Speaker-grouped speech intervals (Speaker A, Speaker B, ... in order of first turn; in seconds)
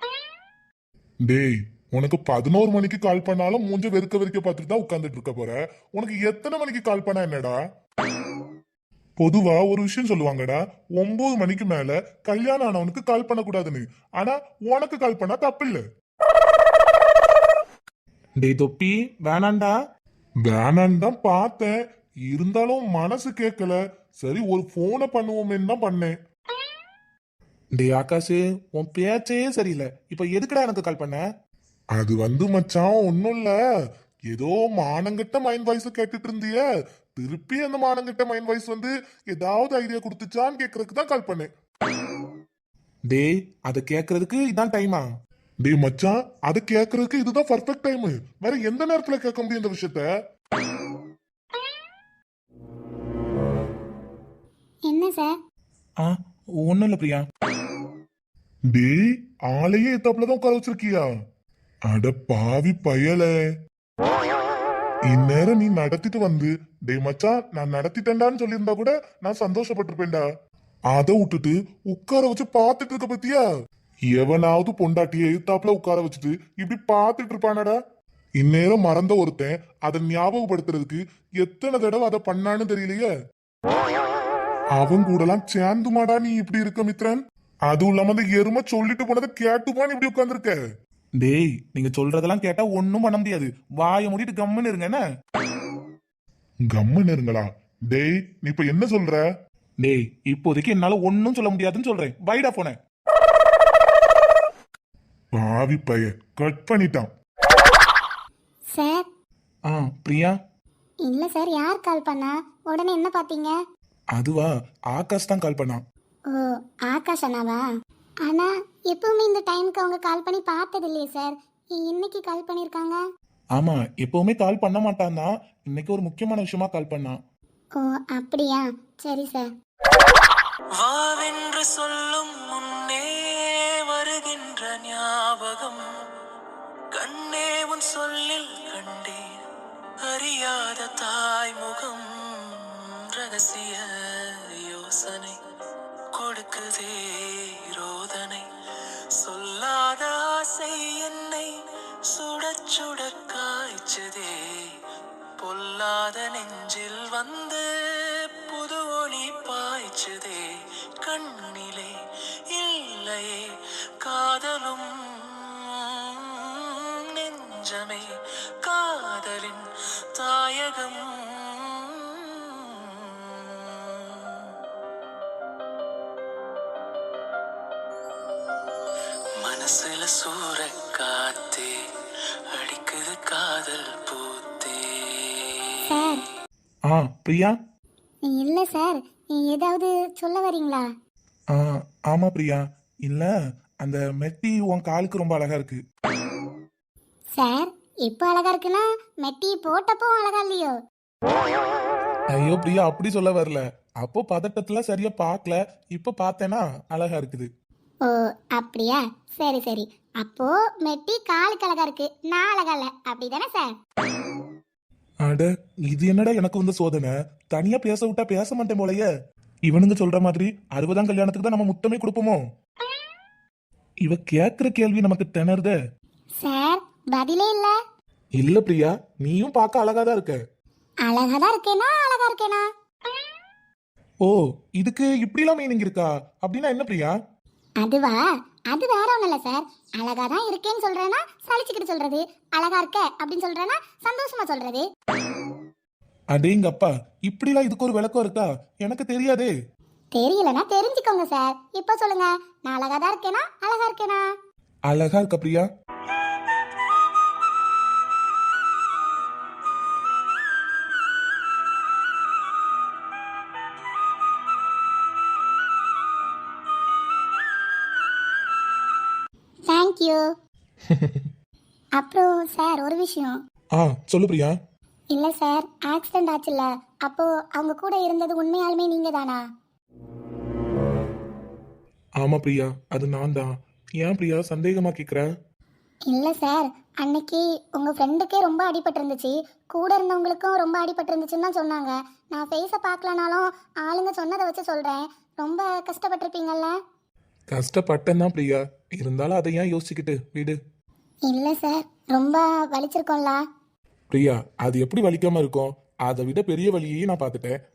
Speaker A: 1.3-7.5, 9.2-15.8, 18.4-19.7, 20.5-21.7, 22.3-26.1, 27.8-31.2, 32.0-33.5, 34.3-36.6, 37.1-41.5, 43.1-45.1, 45.6-50.1, 56.0-57.2, 58.7-61.0, 61.9-63.3, 65.1-70.2, 70.9-73.4, 74.1-77.8, 78.4-83.1, 84.8-90.6, 91.2-95.0, 96.7-99.2, 99.8-102.8, 105.3-107.1, 109.7-110.4, 114.2-115.8, 123.6-127.2, 186.9-187.6, 191.5-193.3, 193.8-195.8, 202.3-207.5, 215.2-219.1, 219.7-222.4, 224.1-225.8, 228.4-230.4, 234.2-237.2, 246.3-249.5, 254.9-255.7, 270.9-271.3, 273.8-274.6, 282.2-285.3, 297.5-300.6, 304.1-307.5
Speaker B: 54.9-55.3, 108.7-109.1, 111.0-113.5, 116.3-117.6, 118.2-123.0, 127.8-129.5, 185.9-186.2, 188.2-190.8, 197.3-200.8, 208.1-213.7, 226.4-227.7, 231.0-232.7, 237.8-238.2, 238.7-244.9, 250.1-254.3, 269.7-270.3, 272.0-273.4, 275.1-279.4, 286.1-296.8, 301.3-303.4
Speaker C: 130.8-135.8, 136.9-139.2, 140.1-145.4, 146.1-148.5, 149.2-151.5, 152.1-154.8, 155.4-160.5, 161.0-161.9, 162.5-168.1, 168.6-174.5, 179.4-181.8, 182.5-185.8